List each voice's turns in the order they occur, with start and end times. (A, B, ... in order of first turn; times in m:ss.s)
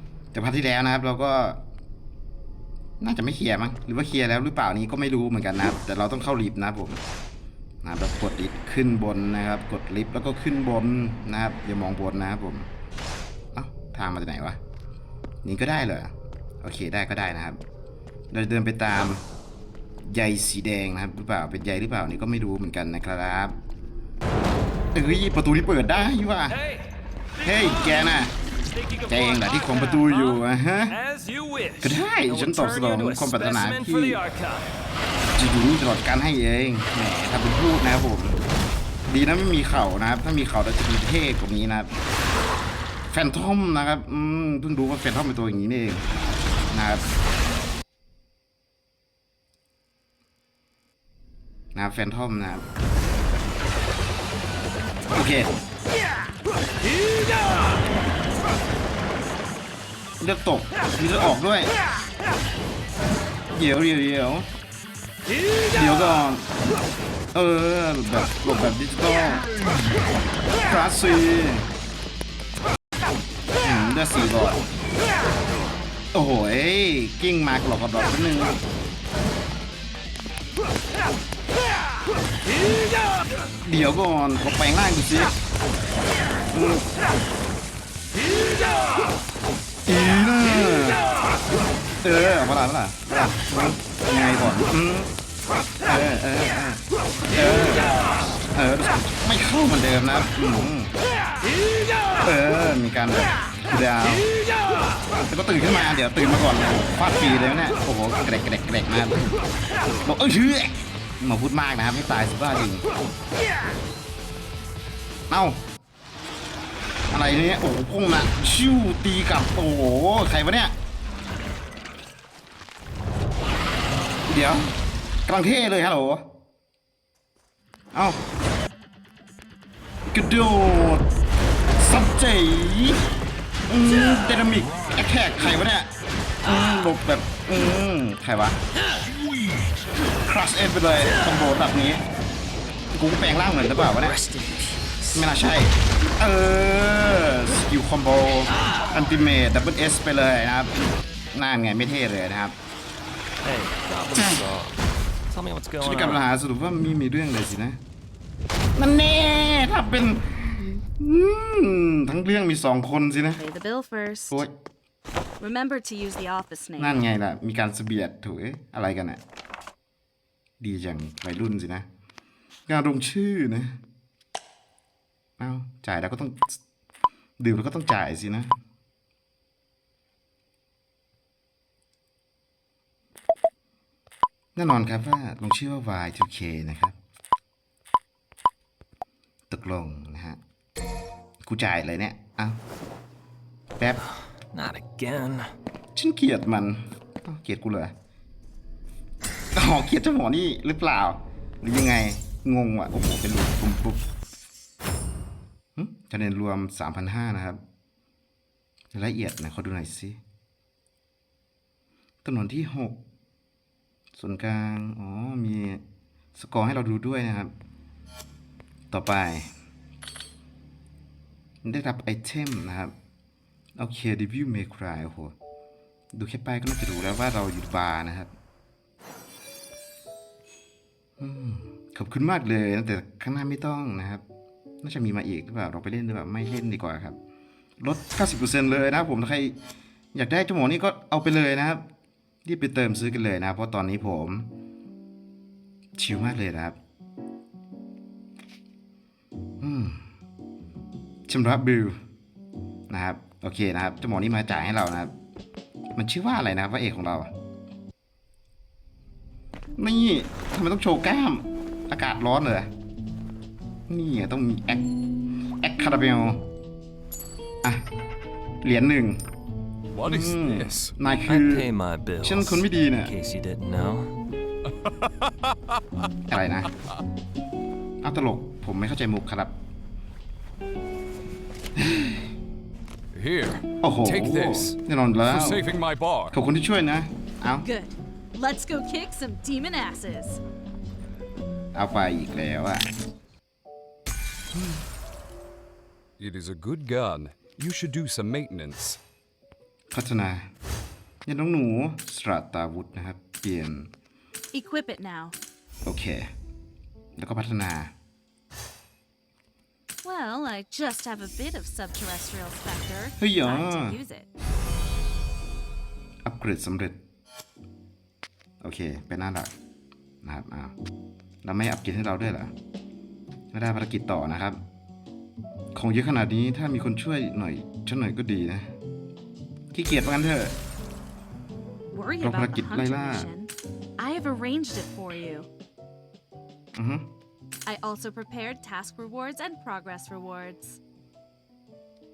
0:00.3-0:01.6 A
0:03.0-0:07.0 A
0:07.8-0:12.7 A
0:13.5-0:14.6 A
0:15.4-0:17.6 A
0:18.3-0:19.2 A
0:20.0-0:23.6 A
0:24.9-0:26.6 A
0:27.4-0:28.3 A
0:27.5-0:28.0 B
0:28.8-0:34.7 B
0:29.1-0:31.0 A
0:31.8-0:34.2 A
0:35.3-0:38.4 A
0:39.1-0:41.9 A
0:43.1-0:46.1 A
0:46.7-0:47.1 A
0:51.7-0:52.6 A
0:55.1-0:55.5 A
1:00.2-1:01.7 A
1:03.5-1:04.5 A
1:05.7-1:06.5 A
1:07.3-1:09.5 A
1:10.6-1:11.7 A
1:13.6-1:14.6 A
1:16.1-1:18.6 A
1:23.6-1:25.3 A
1:26.5-1:26.9 A
1:29.8-1:31.0 A
1:32.0-1:35.1 A
1:35.8-1:36.8 A
1:37.3-1:38.0 A
1:38.5-1:40.9 A
1:42.2-1:44.3 A
1:45.3-1:49.3 A
1:50.0-1:52.8 A
1:55.3-1:55.6 A
1:57.1-2:00.8 A
2:04.3-2:06.3 A
2:07.9-2:08.2 A
2:10.1-2:11.1 A
2:11.8-2:13.0 A
2:13.7-2:15.9 A
2:16.4-2:18.6 A
2:20.2-2:22.0 A
2:22.9-2:24.2 A
2:24.0-2:25.0 B
2:25.1-2:30.8 A
2:31.3-2:32.6 A
2:33.4-2:34.7 B
2:35.3-2:36.2 B
2:35.8-2:37.8 A
2:38.8-2:43.4 A
2:43.4-2:44.4 C
2:45.4-2:47.0 C
2:46.8-2:49.2 A
2:50.6-2:51.9 A
2:52.7-2:53.8 A
2:55.4-2:56.6 A
2:57.4-2:58.5 A
3:04.6-3:07.0 A
3:09.5-3:10.4 A
3:11.4-3:12.6 A
3:13.8-3:14.0 A
3:14.5-3:15.5 B
3:16.0-3:17.9 A
3:19.5-3:24.0 A
3:25.8-3:27.6 A
3:28.9-3:30.2 A
3:32.2-3:33.0 A
3:34.1-3:35.8 A
3:36.3-3:37.5 A
3:38.9-3:39.5 A
3:41.6-3:42.9 A
3:43.8-3:45.3 A
3:46.1-3:48.3 A
3:51.2-3:54.2 A
3:54.8-3:57.2 A
3:57.8-3:59.6 A
4:00.1-4:01.8 A
4:02.4-4:04.5 A
4:06.0-4:06.8 A
4:09.6-4:10.0 A
4:11.3-4:12.0 A
4:12.9-4:15.1 A
4:16.0-4:17.3 A
4:19.8-4:22.7 A
4:23.9-4:24.9 A
4:25.6-4:26.4 A
4:28.6-4:29.2 A
4:29.9-4:30.9 D
4:30.0-4:31.7 A
4:31.2-4:34.2 B
4:32.2-4:33.1 A
4:34.9-4:35.6 D
4:36.3-4:36.7 A
4:38.0-4:39.6 A
4:41.8-4:42.2 A
4:43.1-4:46.4 D
4:43.8-4:45.7 A
4:46.3-4:47.7 A
4:47.6-4:50.4 C
4:51.7-4:52.9 A
4:54.5-4:54.8 A
4:56.2-4:59.0 D
4:59.9-5:00.5 A
5:01.2-5:03.9 A
5:04.5-5:05.4 C
5:05.9-5:06.3 A
5:07.2-5:07.9 A
5:10.0-5:14.3 C
5:13.2-5:14.0 A
5:16.2-5:17.0 A
5:18.6-5:19.6 A
5:20.2-5:20.7 A
5:21.4-5:22.5 A
5:23.5-5:24.6 A
5:25.7-5:28.7 A
5:29.7-5:30.6 A
5:31.9-5:35.5 C
5:32.2-5:33.3 A
5:36.7-5:37.1 A
5:37.7-5:40.8 C